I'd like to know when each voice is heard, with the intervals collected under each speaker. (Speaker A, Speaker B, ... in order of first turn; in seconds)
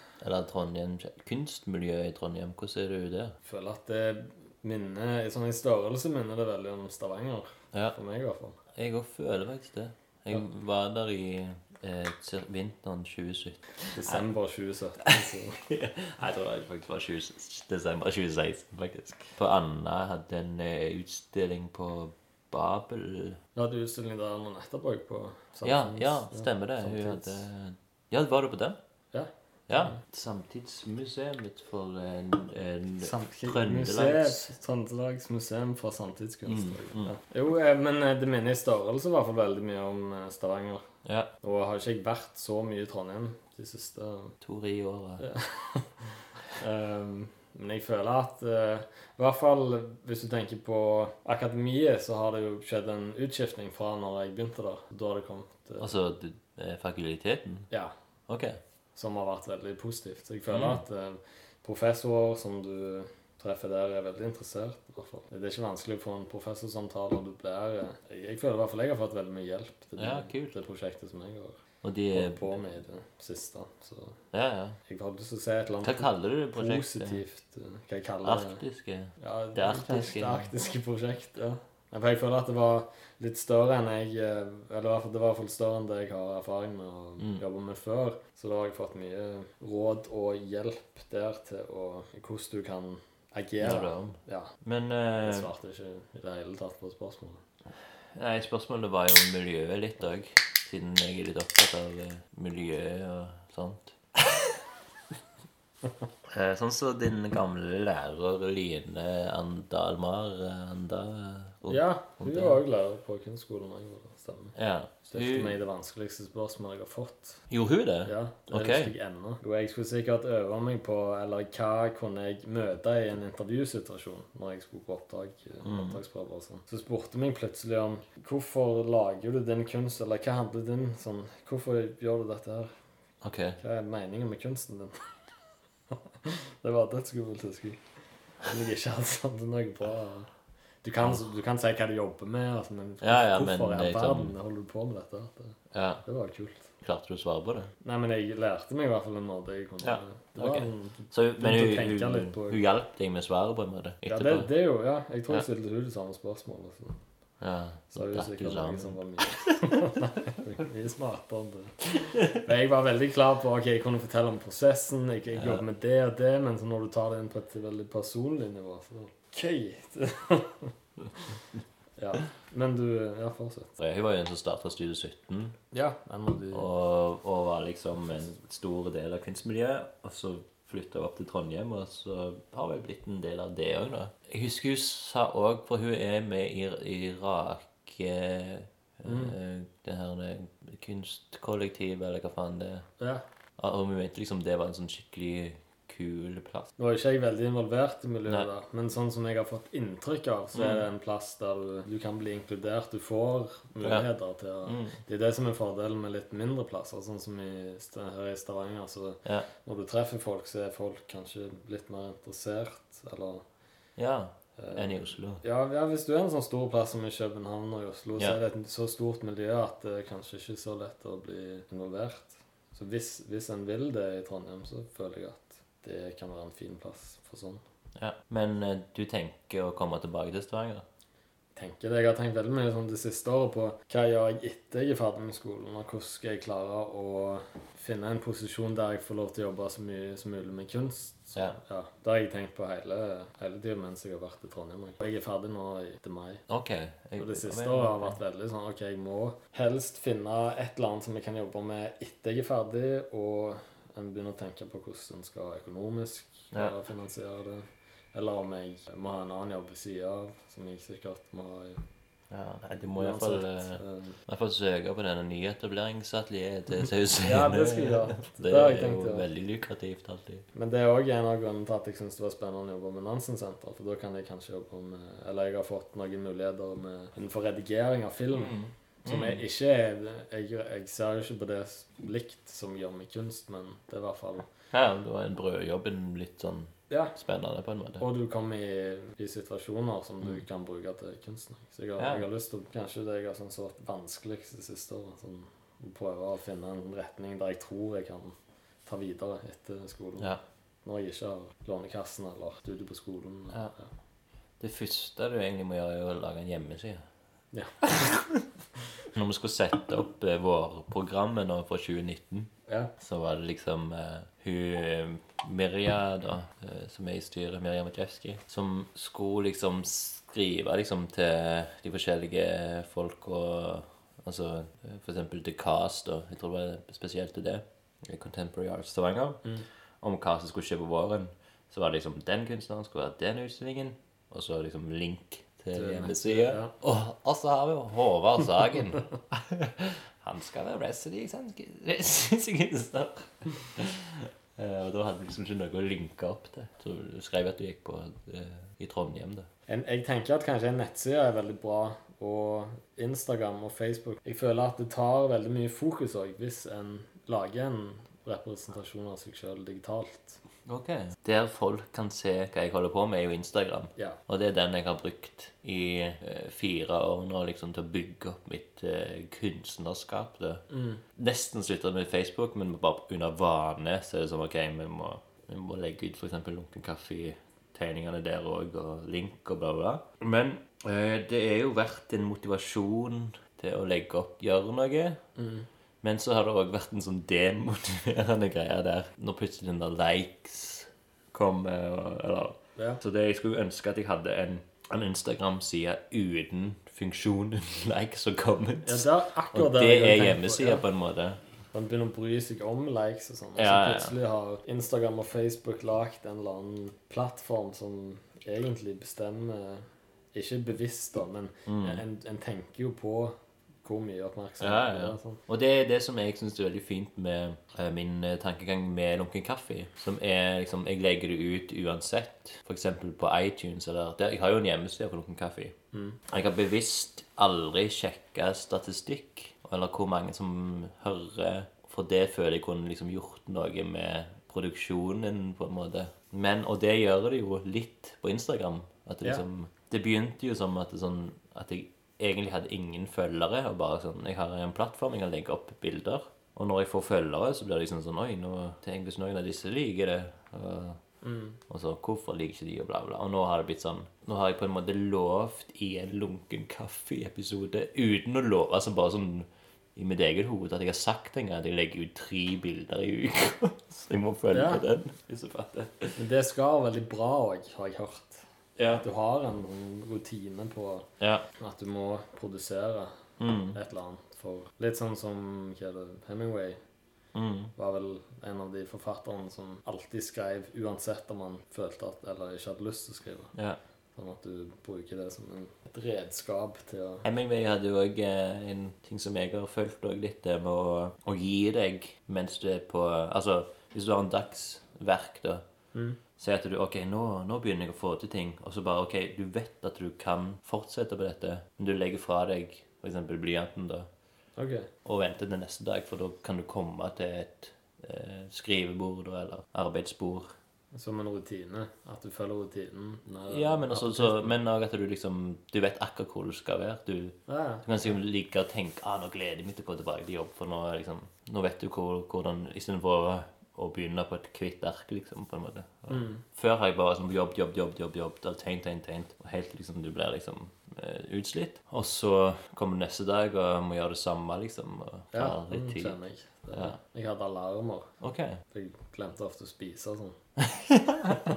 Speaker A: 0.2-3.4, 8.8-14.2, 15.0-23.4, 25.6-28.8, 29.7-34.5, 36.5-37.1, 41.0-41.3, 44.4-45.3, 55.8-57.7, 58.3-58.6, 60.5-60.8, 70.0-70.6, 71.8-72.6, 74.3-74.8, 75.8-77.2, 78.2-80.5, 93.6-95.5, 98.1-104.0, 106.3-112.6, 114.6-115.6, 117.5-118.9, 125.6-126.0, 133.2-133.6, 143.0-144.3, 145.7-146.0, 146.8-147.7, 149.8-154.5, 157.4-159.7, 162.0-162.4, 165.3-165.6, 173.8-175.6, 176.5-192.9, 193.6-196.7, 200.5-200.8, 203.8-204.1, 204.7-205.0, 214.0-215.4, 228.0-230.8, 246.5-248.2, 262.3-270.4, 278.3-279.4, 284.7-288.0, 292.0-292.3, 304.6-307.1, 309.1-329.4, 330.0-349.5, 360.7-370.6, 371.1-385.2, 386.0-401.4, 403.6-404.1, 411.7-412.0, 414.6-425.8, 426.3-451.0, 451.7-466.2, 468.8-469.0, 471.2-471.5, 473.4-473.8, 477.4-477.7, 483.5-483.8, 487.2-495.6, 496.4-504.1, 505.1-510.6, 513.5-536.2, 536.7-537.0, 538.2-538.6, 540.6-541.4
Speaker B: 3.5-8.6, 13.9-15.6, 23.6-27.4, 29.1-30.0, 33.0-40.8, 41.4-44.4, 45.2-45.9, 46.5-55.9, 57.7-58.0, 59.0-71.6, 72.1-74.2, 74.9-78.6, 79.2-94.5, 95.2-97.4, 111.7-114.5, 115.1-117.4, 118.0-132.7, 133.6-135.1, 135.9-137.8, 138.4-140.3, 140.8-146.7, 147.8-152.6, 154.1-157.0, 157.9-170.7, 172.0-173.7, 175.7-176.7, 189.1-189.4, 193.0-193.2, 196.8-213.4, 214.6-227.6, 231.6-246.4, 247.2-261.8, 262.9-264.2, 267.2-269.3, 270.6-284.5, 288.0-300.3, 300.8-303.9, 307.5-307.8, 312.7-312.9, 335.7-336.7, 349.7-360.4, 370.7-371.0, 385.4-385.7, 392.8-393.0, 398.8-400.8, 401.7-415.4, 425.9-426.2, 451.2-451.6, 464.5-464.9, 466.2-473.1, 473.7-476.8, 477.8-483.5, 484.2-487.2, 495.9-496.2, 504.6-504.9, 510.9-514.5, 517.5-518.1, 526.1-526.4, 535.3-538.1, 538.7-540.4